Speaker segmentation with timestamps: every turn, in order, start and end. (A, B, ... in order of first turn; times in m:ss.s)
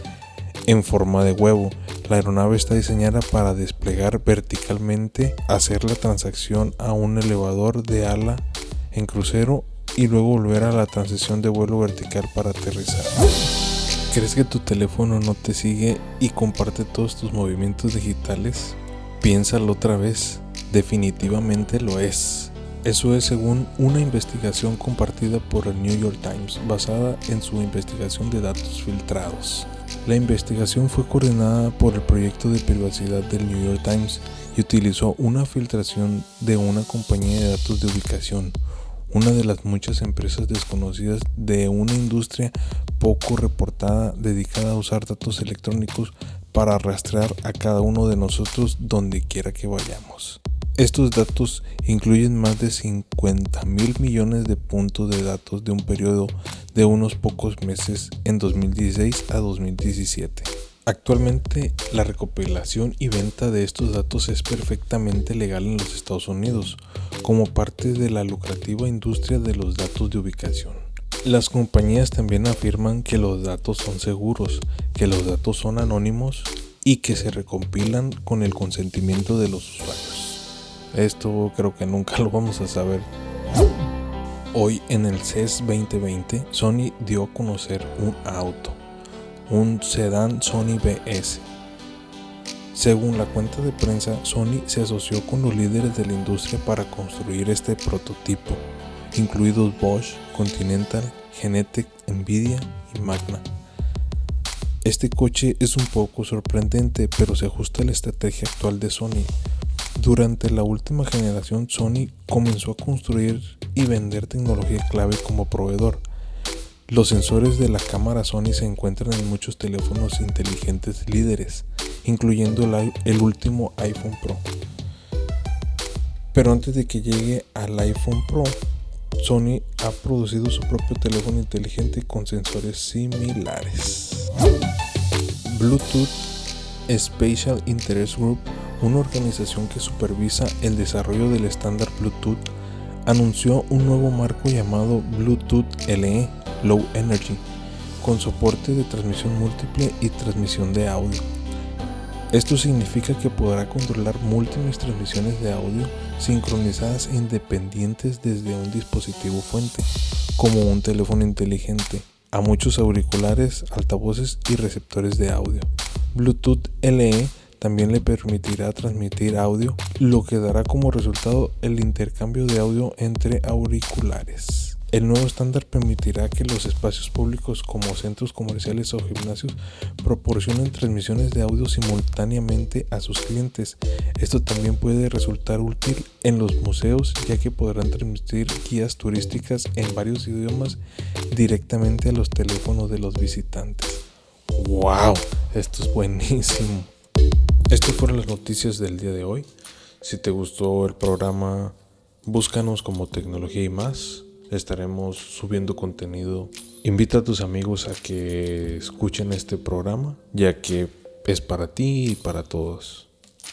0:00.7-0:13.2 A
0:14.1-0:38.6 A
0:39.1-1:23.1 A
1:24.5-1:28.8 A
1:29.5-1:31.5 A
1:32.7-1:43.4 A
1:44.8-1:49.3 A
1:50.0-1:56.0 A
1:56.9-2:04.4 A
2:06.3-2:08.6 A
2:09.2-2:14.3 A
2:15.4-2:16.2 A
2:16.9-2:22.4 A
2:23.0-2:27.4 A
2:28.0-2:31.2 A
2:32.3-3:16.9 A
3:17.7-3:19.5 A
3:20.0-3:33.1 A